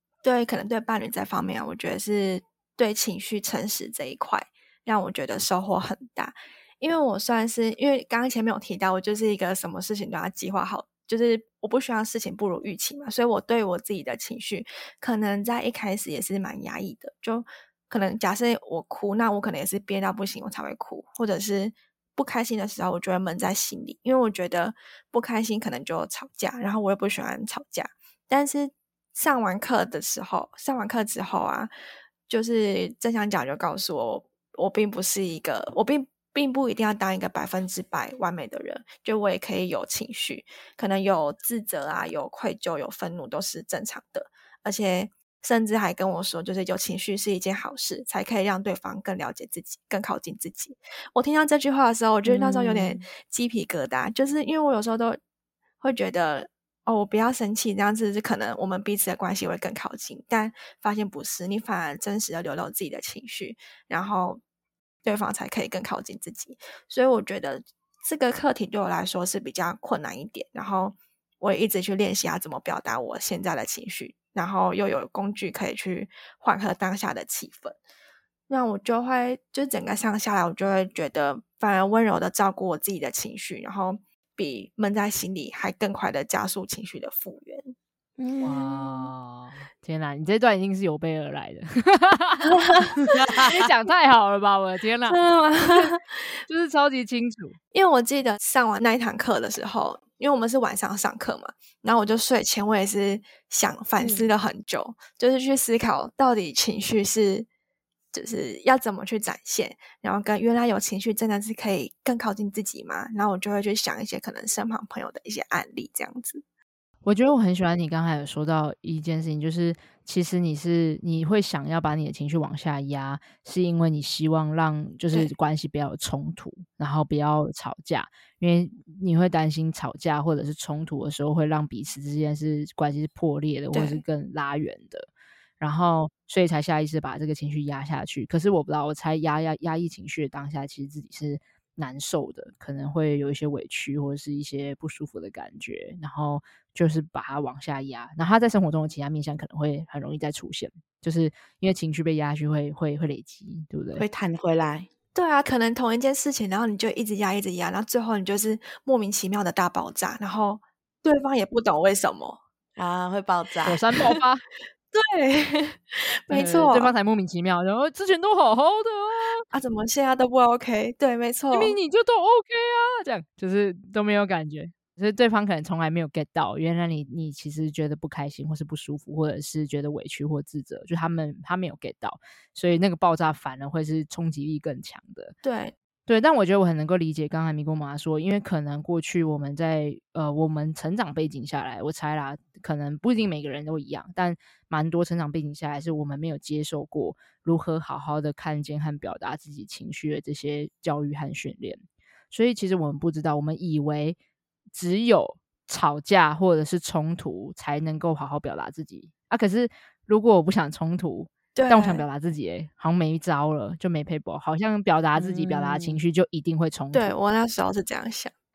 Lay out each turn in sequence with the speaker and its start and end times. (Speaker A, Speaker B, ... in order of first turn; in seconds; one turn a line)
Speaker A: 0.2-31.7
Speaker A: 32.3-55.2
Speaker B: 52.2-53.0
Speaker A: 55.8-64.4
Speaker A: 65.0-77.8
Speaker A: 78.5-87.7
Speaker B: 88.2-89.1
Speaker C: 88.4-92.5
Speaker A: 92.4-93.0
Speaker B: 93.1-93.5
Speaker C: 93.3-96.0
Speaker A: 95.1-96.3
Speaker C: 96.5-97.6
Speaker A: 97.7-107.5
Speaker B: 104.0-104.3
Speaker A: 108.1-116.4
Speaker C: 117.0-135.1
Speaker A: 133.7-134.0
Speaker C: 135.6-154.0
Speaker B: 153.9-154.9
Speaker A: 155.1-162.4
Speaker B: 162.8-163.8
Speaker C: 163.7-164.4
Speaker A: 164.9-166.9
Speaker C: 166.3-169.4
Speaker A: 169.5-171.8
Speaker C: 171.5-185.3
Speaker A: 185.4-185.7
Speaker C: 186.1-204.2
Speaker C: 204.7-217.1
Speaker A: 211.5-212.1
Speaker B: 215.2-216.0
Speaker A: 216.9-218.3